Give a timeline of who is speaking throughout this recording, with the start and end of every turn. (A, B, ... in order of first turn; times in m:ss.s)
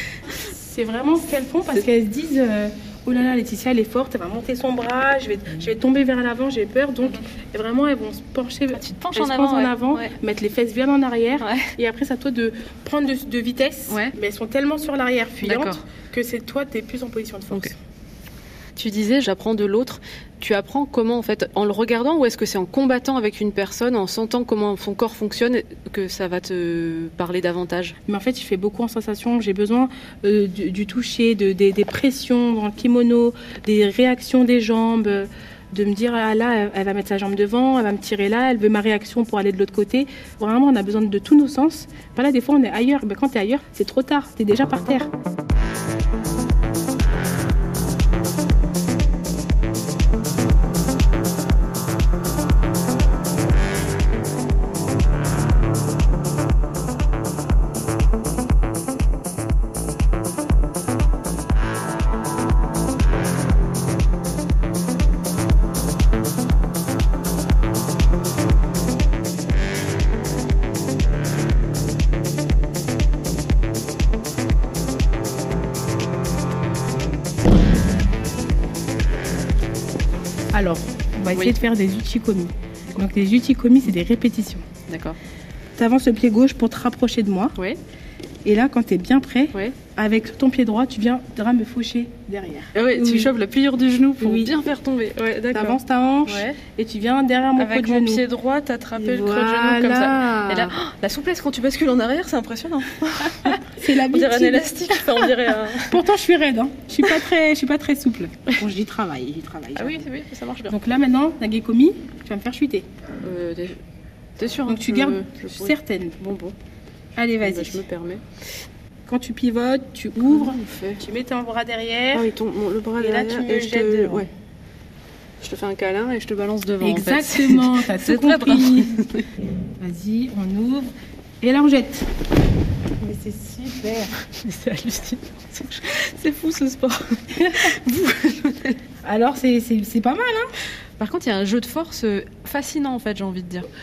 0:00.4-0:17.8 A
0:08.7-0:10.1 B
0:11.4-0:11.7 B
0:15.4-0:15.8 B
0:18.8-0:28.0 B
0:28.1-0:45.1 A
1:20.5-1:24.6 A
1:24.9-1:25.2 B
1:25.8-1:27.5 A
1:28.4-1:33.3 A
1:32.7-1:36.6 B
1:34.2-1:34.5 A
1:35.5-1:38.2 A
1:37.6-1:46.0 B
1:39.0-1:40.7 A
1:43.4-1:45.2 A
1:45.8-1:50.1 A
1:49.8-1:50.7 B
1:50.7-1:52.9 A
1:53.2-1:53.8 B
1:54.4-1:56.6 B
1:54.6-1:56.2 A
1:57.2-1:57.8 A
1:57.4-1:58.2 B
1:59.0-2:02.3 A
2:00.2-2:01.0 B
2:02.1-2:04.3 B
2:03.0-2:04.3 A
2:05.4-2:09.2 B
2:06.8-2:09.0 A
2:09.8-2:10.9 A
2:11.4-2:12.1 A
2:13.0-2:14.1 A
2:14.4-2:18.8 B
2:19.0-2:20.5 A
2:21.0-2:23.7 B